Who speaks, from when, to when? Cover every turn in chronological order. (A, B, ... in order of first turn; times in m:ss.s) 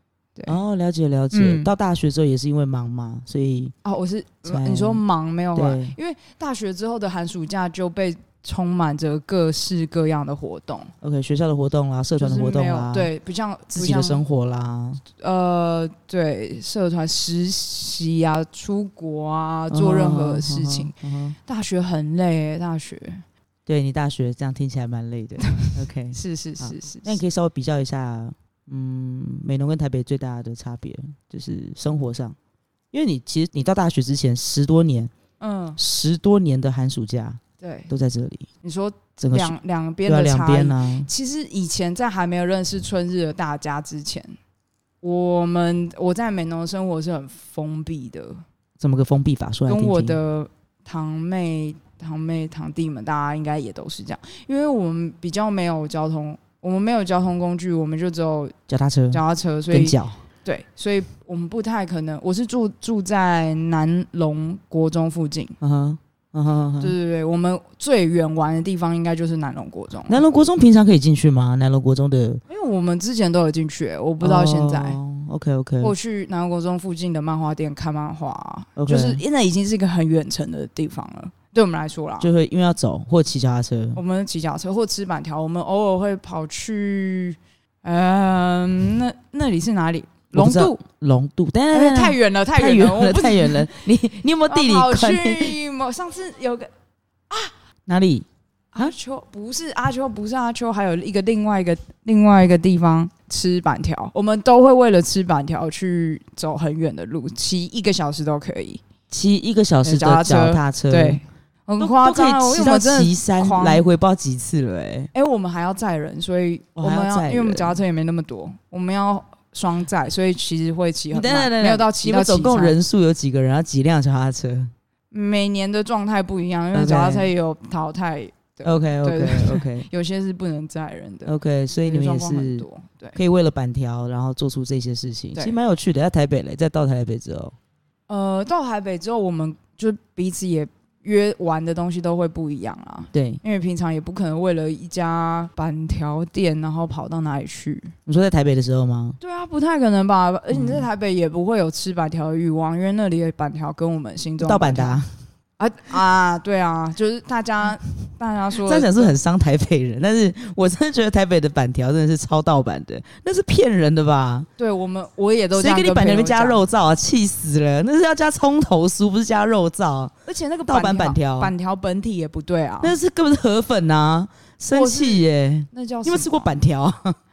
0:00.5-0:03.8 A
0:01.3-0:01.7 B
0:03.8-0:10.9 B
0:04.5-0:05.0 A
0:05.6-0:06.0 A
0:11.0-0:13.1 A
0:12.2-0:14.2 B
0:13.7-0:15.0 A
0:15.1-0:20.9 B
0:19.7-0:21.4 A
0:21.5-0:23.2 B
0:23.7-0:32.4 A
0:25.6-0:27.2 B
0:32.9-0:35.1 A
0:35.4-0:35.8 B
0:35.8-0:38.5 A
0:37.6-0:37.9 B
0:38.6-0:44.4 B
0:39.2-0:41.1 A
0:45.0-0:48.4 B
0:48.8-0:50.2 A
0:49.7-0:58.6 B
0:58.7-1:00.2 A
0:59.1-1:05.6 B
1:05.6-1:07.0 A
1:06.8-1:10.2 B
1:10.1-1:12.4 A
1:12.5-1:15.0 B
1:14.2-1:15.9 A
1:15.8-1:22.3 B
1:18.8-1:19.2 A
1:22.2-1:24.0 A
1:24.0-1:30.8 B
1:30.3-1:35.6 A
1:31.7-1:33.8 B
1:34.5-1:36.7 B
1:37.9-1:38.9 A
1:38.7-1:48.8 B
1:49.1-1:51.2 A
1:49.8-1:53.8 B
1:51.8-1:55.1 A
1:55.1-2:02.8 B
1:56.8-1:57.8 A
2:01.1-2:04.7 A
2:05.1-2:11.3 B
2:06.7-2:07.3 A
2:08.6-2:09.9 A
2:11.3-2:12.6 A
2:11.8-2:13.2 B
2:13.2-2:17.6 A
2:18.1-2:27.9 B
2:23.1-2:23.4 A
2:28.1-2:29.2 A
2:29.2-2:35.0 B
2:30.5-2:30.9 A
2:34.4-2:35.1 A
2:35.6-2:39.1 B
2:38.6-2:44.5 A
2:44.6-2:46.6 B
2:45.6-2:50.1 A
2:50.3-2:53.0 B
2:50.7-2:51.5 A
2:52.8-2:57.2 A
2:54.7-2:56.6 B